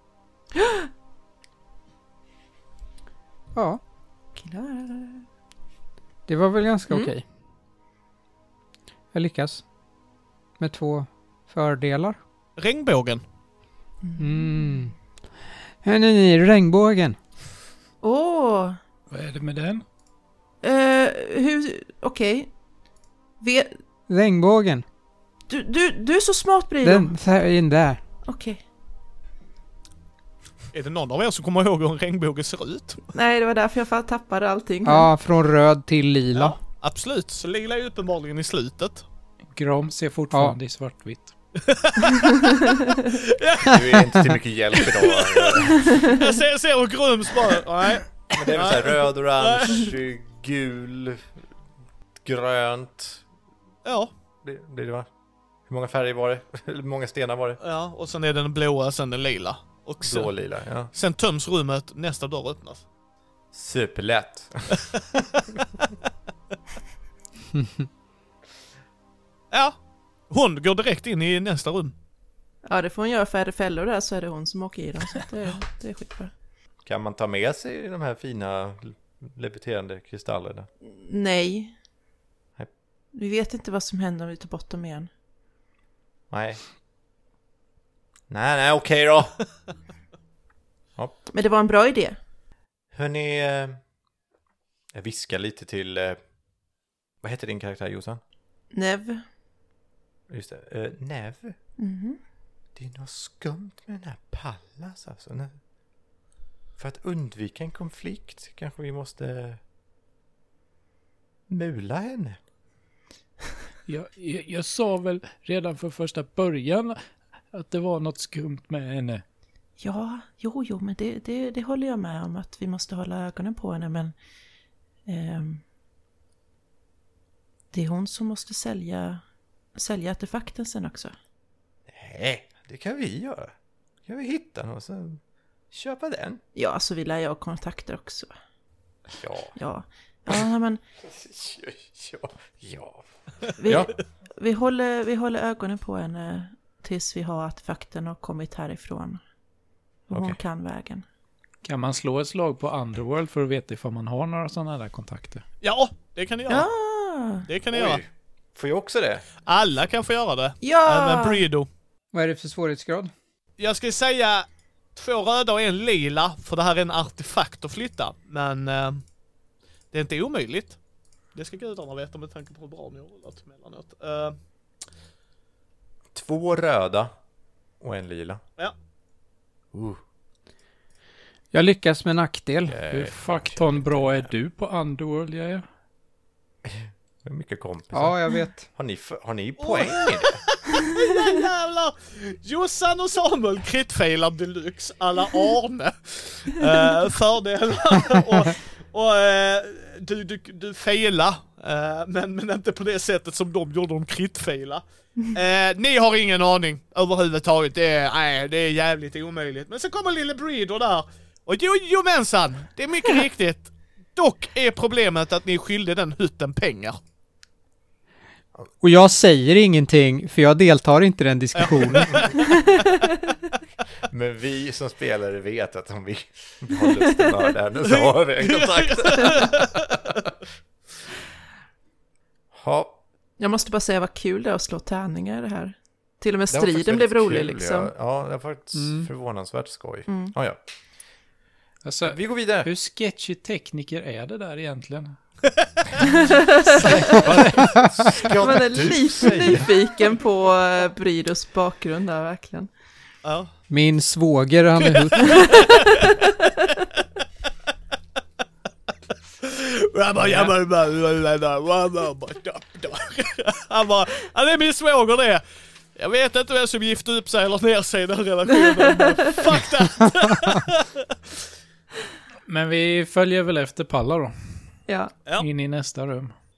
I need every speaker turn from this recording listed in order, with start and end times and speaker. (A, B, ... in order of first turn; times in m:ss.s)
0:00.5-0:00.9 A
0:03.5-0:03.8 B
0:04.4-0:05.2 A
0:06.3-0:07.2 B
0:09.1-0:09.6 B
0:10.6-0:12.2 B
0:12.6-0:13.2 C
0:14.0-0:14.9 A
0:14.2-0:14.9 B
0:15.8-0:17.2 B
0:18.0-0:18.8 A
0:19.1-0:19.8 D
0:20.6-0:22.5 A
0:23.4-0:23.7 A
0:24.1-0:24.8 B
0:25.5-0:27.1 A
0:26.8-0:28.0 B
0:28.3-0:28.6 A
0:30.7-0:33.0 C
0:33.1-0:35.1 A
0:34.8-0:36.6 B
0:36.3-0:39.0 C
0:39.5-0:41.3 D
0:41.6-0:49.9 C
0:43.6-0:46.1 E
0:48.3-0:51.2 E
0:52.2-0:53.2 E
0:53.8-0:54.1 C
0:54.4-0:55.1 E
0:55.7-0:57.6 E
0:57.6-1:00.3 C
1:00.0-1:00.9 E
1:00.9-1:02.8 C
1:03.5-1:05.2 E
1:10.3-1:11.9 C
1:12.6-1:16.3 A
1:16.8-1:20.7 E
1:20.8-1:21.7 A
1:23.1-1:25.1 A
1:26.3-1:26.6 E
1:28.3-1:29.4 E
1:31.3-1:32.2 A
1:32.9-1:33.8 E
1:34.9-1:36.2 E
1:37.2-1:38.2 E
1:38.7-1:39.2 A
1:40.3-1:41.5 E
1:41.8-1:42.2 A
1:42.8-1:45.6 E
1:46.8-1:49.6 E
1:51.5-1:52.4 E
1:53.9-1:57.0 D
1:57.5-1:59.2 D
1:59.8-2:04.1 A
2:05.0-2:05.6 A
2:07.7-2:09.2 A
2:09.8-2:11.1 A
2:11.9-2:13.5 E
2:14.0-2:16.4 E
2:16.5-2:18.3 A
2:19.2-2:19.6 E
2:19.6-2:20.8 A
2:21.0-2:23.0 E
2:23.6-2:29.2 A
2:23.6-2:24.0 E
2:30.1-2:31.0 A
2:30.1-2:30.4 E
2:31.6-2:35.4 D
2:35.6-2:36.7 C
2:36.5-2:37.5 A
2:37.5-2:38.0 C
2:37.7-2:39.2 E
2:39.4-2:41.7 C
2:40.6-2:41.4 A
2:42.1-2:43.1 B
2:43.6-2:49.0 C
2:49.9-2:50.8 C
2:51.3-2:54.4 C
2:56.1-2:57.1 E
2:57.8-2:58.4 E
2:59.7-3:00.0 E
3:01.5-3:02.8 B
3:02.7-3:04.3 E
3:02.9-3:05.6 D
3:06.6-3:08.1 E
3:07.9-3:08.6 B
3:08.7-3:10.4 E
3:09.6-3:37.0 C
3:38.8-3:42.3 B
3:41.6-3:42.4 C
3:44.1-3:50.2 E
3:47.9-3:50.2 C
3:52.5-3:53.0 E
3:53.4-3:57.9 A
3:56.5-4:00.6 E
3:58.7-3:59.1 B
4:00.1-4:00.3 A
4:01.8-4:05.2 D
4:02.0-4:02.7 E
4:06.1-4:07.3 A
4:06.7-4:09.8 E
4:08.3-4:12.7 A
4:13.2-4:13.5 C
4:13.7-4:15.3 B
4:15.1-4:15.9 C
4:15.3-4:16.3 A
4:19.4-4:25.4 C
4:26.0-4:31.2 C
4:28.8-4:29.1 A
4:32.5-4:34.5 D
4:34.9-4:35.1 A
4:35.4-4:36.3 D